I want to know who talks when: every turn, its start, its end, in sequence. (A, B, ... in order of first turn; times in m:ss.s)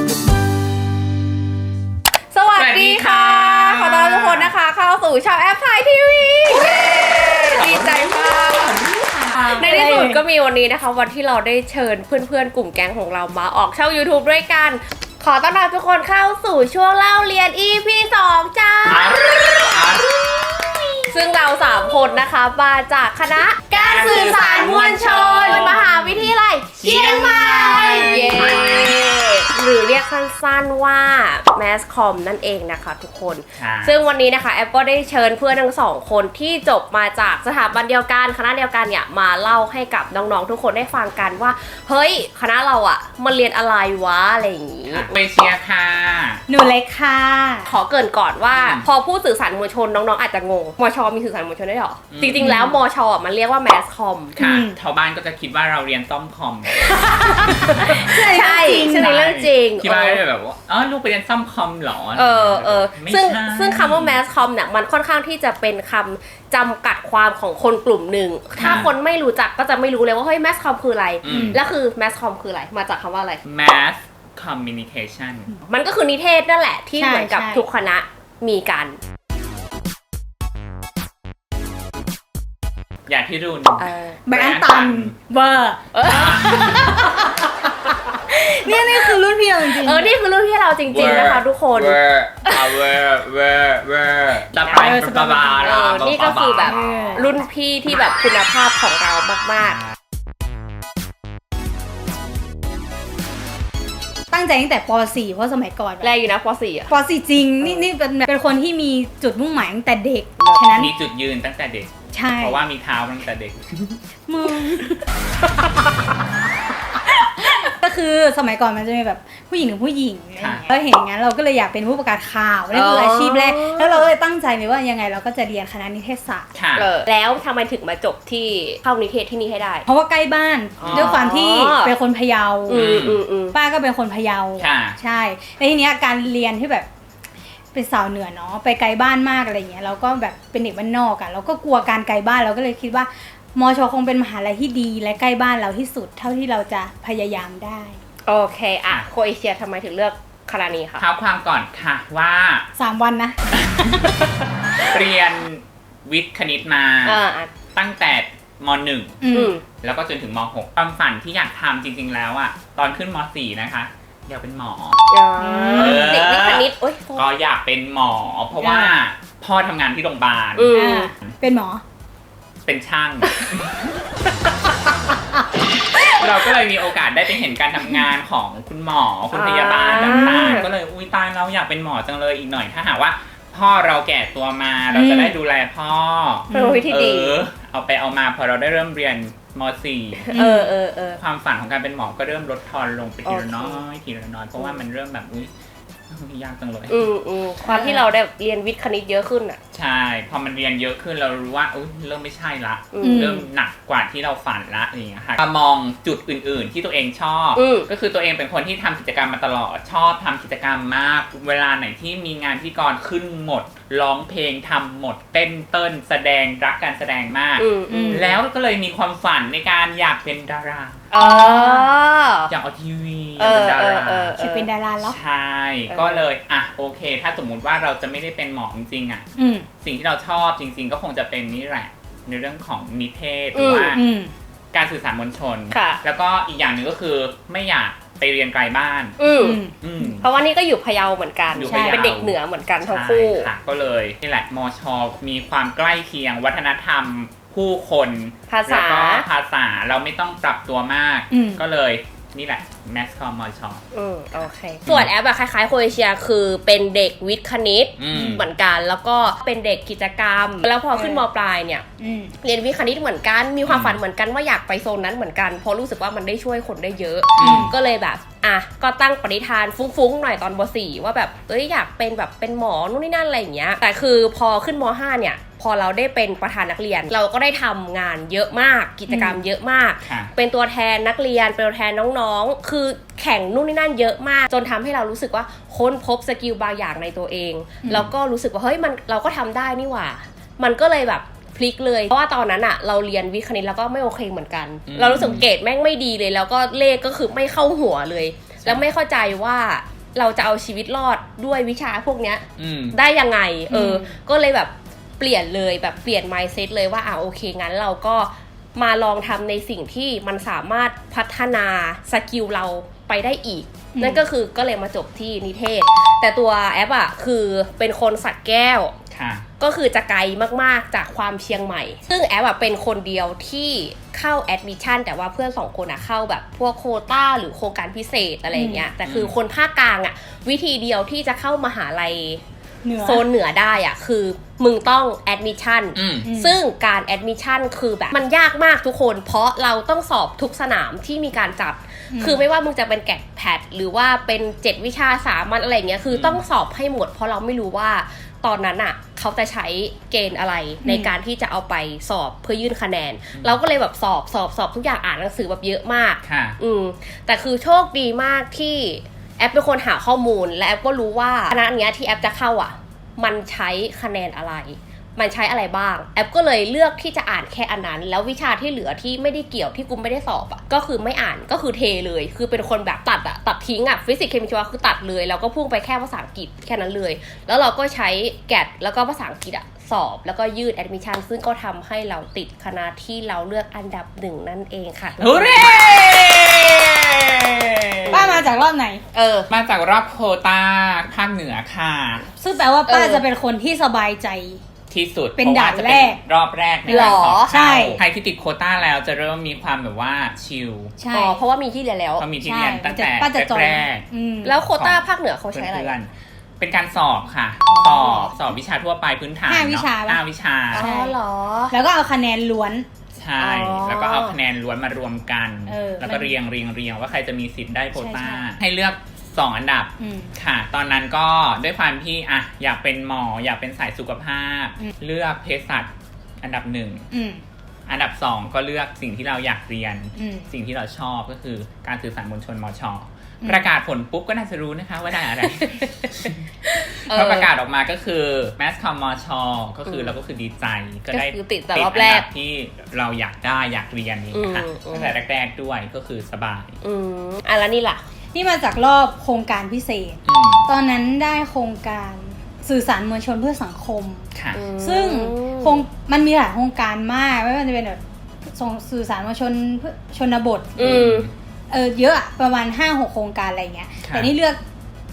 0:02.3-0:08.9 A
0:02.6-0:04.5 B
0:07.5-0:09.8 B
0:08.8-0:10.2 C
0:09.4-0:19.2 A
0:18.9-0:20.1 B
0:21.1-0:45.1 A
0:23.7-0:28.9 B
0:27.7-0:28.1 C
0:33.6-0:34.0 B
0:44.9-0:46.4 B
0:46.5-0:47.7 C
0:47.7-0:54.4 A
0:48.5-0:48.8 B
0:52.1-0:52.6 B
0:52.4-0:52.8 C
0:54.4-1:04.2 B
0:54.4-0:54.8 C
0:56.8-0:59.1 C
0:57.8-1:00.2 A
1:02.2-1:13.4 A
1:08.5-1:08.9 B
1:11.2-1:11.6 B
1:11.3-1:11.6 C
1:13.4-1:15.5 B
1:15.7-1:19.0 A
1:17.0-1:17.6 C
1:23.1-1:25.2 B
1:23.8-1:24.2 A
1:24.3-1:30.1 C
1:25.9-1:26.5 A
1:26.0-1:26.8 B
1:28.7-1:32.8 A
1:30.9-1:36.8 B
1:34.5-1:35.0 A
1:34.8-1:35.7 C
1:35.6-1:39.8 A
1:36.6-1:37.5 C
1:44.3-1:46.1 C
1:46.0-1:46.9 A
1:46.9-1:50.9 C
1:50.7-1:54.0 B
1:52.1-1:52.6 C
1:54.3-1:55.0 C
1:57.2-2:06.5 C
2:00.4-2:00.7 B
2:02.7-2:04.1 A
2:06.5-2:06.9 B
2:06.8-2:09.9 A
2:09.9-2:12.9 C
2:10.8-2:11.2 B
2:10.8-2:11.9 A
2:12.7-2:13.6 A
2:12.7-2:13.2 B
2:13.5-2:16.9 C
2:14.6-2:15.0 B
2:17.7-2:28.0 C
2:28.2-2:31.1 A
2:31.0-2:32.7 B
2:32.8-2:34.1 C
2:33.5-2:34.2 B
2:34.7-2:37.2 B
2:37.0-2:37.5 A
2:37.8-2:45.0 B
2:39.2-2:39.6 C
2:39.3-2:39.6 A
2:45.1-2:47.3 A
2:45.4-2:46.1 C
2:45.7-2:51.4 B
2:48.6-2:49.0 C
2:50.6-2:51.1 A
2:50.7-2:51.8 C
2:52.6-2:53.9 B
2:56.0-3:10.4 B
2:59.3-3:00.7 A
3:00.0-3:00.6 C
3:04.9-3:05.4 C
3:06.5-3:06.9 C
3:06.5-3:07.4 A
3:10.3-3:11.2 A
3:10.3-3:10.7 C
3:11.2-3:15.5 B
3:13.2-3:13.8 A
3:16.1-3:17.1 B
3:16.9-3:19.6 A
3:17.6-3:18.0 C
3:19.7-3:41.1 B
3:22.9-3:23.5 A
3:23.0-3:23.5 C
3:27.6-3:27.9 A
3:37.6-3:38.4 A
3:37.9-3:38.3 C
3:41.1-3:42.5 A
3:41.2-3:41.9 C
3:42.5-3:44.4 B
3:43.4-3:44.7 A
3:44.4-3:45.2 C
3:45.0-3:49.2 B
3:45.9-3:46.3 A
3:49.4-3:49.7 C
3:49.8-3:54.0 B
3:53.5-3:54.0 A
3:53.9-3:54.3 C
3:54.7-3:59.2 B
3:55.7-3:56.0 A
3:59.2-4:03.5 A
3:59.4-3:59.8 C
3:59.8-4:00.3 B
4:01.5-4:13.8 B
4:01.6-4:02.1 C
4:08.5-4:09.3 A
4:11.3-4:11.6 C
4:13.9-4:21.8 A
4:14.9-4:15.1 B
4:18.0-4:18.4 B
4:18.1-4:18.4 C
4:21.0-4:21.3 C
4:22.0-4:22.3 C
4:22.4-5:19.0 A
4:23.7-4:24.0 B
4:27.4-4:27.7 B
4:27.4-4:27.7 C
4:39.1-4:39.4 C
4:40.0-4:40.3 B
4:47.8-4:48.1 C
4:54.9-4:55.4 B
5:02.6-5:03.0 B
5:03.7-5:04.1 C
5:13.9-5:14.2 C
5:19.1-5:19.5 B
5:19.6-5:32.4 A
5:28.5-5:28.9 C
5:29.0-5:29.3 B
5:32.8-5:33.2 C
5:33.0-6:25.8 A
5:36.0-5:36.3 B
5:36.2-5:36.6 C
5:42.1-5:42.4 C
5:46.1-5:46.4 B
5:50.8-5:51.1 C
5:56.2-5:56.6 B
6:25.2-6:28.4 B
6:28.1-6:28.4 A
6:28.1-6:29.0 C
6:29.1-6:29.5 A
6:29.5-6:32.3 B
6:32.4-6:34.6 C
6:32.9-6:33.2 A
6:34.9-6:40.9 B
6:35.4-6:36.2 C
6:36.9-6:37.5 A
6:36.9-6:38.0 C
6:41.0-6:41.4 C
6:41.1-6:42.3 A
6:42.2-6:44.1 B
6:42.4-6:44.6 C
6:44.4-6:45.9 A
6:44.7-6:45.0 B
6:45.5-6:50.9 B
6:47.7-6:48.3 A
6:49.5-6:51.2 C
6:50.7-6:51.8 A
6:51.7-6:52.9 C
6:53.2-7:05.9 B
6:53.4-6:54.4 A
6:55.7-6:56.3 C
6:58.0-6:58.4 C
7:00.0-7:00.3 C
7:06.4-7:07.1 B
7:07.1-7:07.4 C
7:07.9-7:16.4 B
7:10.2-7:10.5 C
7:13.4-7:13.7 C
7:15.4-7:16.1 A
7:16.6-7:17.5 A
7:17.0-7:26.8 B
7:19.9-7:20.1 A
7:21.1-7:22.3 A
7:24.3-7:25.1 A
7:26.8-7:28.0 A
7:28.3-7:41.0 C
7:30.3-7:30.7 B
7:34.4-7:34.6 B
7:34.5-7:35.8 A
7:40.8-7:41.3 B
7:40.8-7:41.3 A
7:41.7-7:44.6 C
7:44.0-7:44.3 B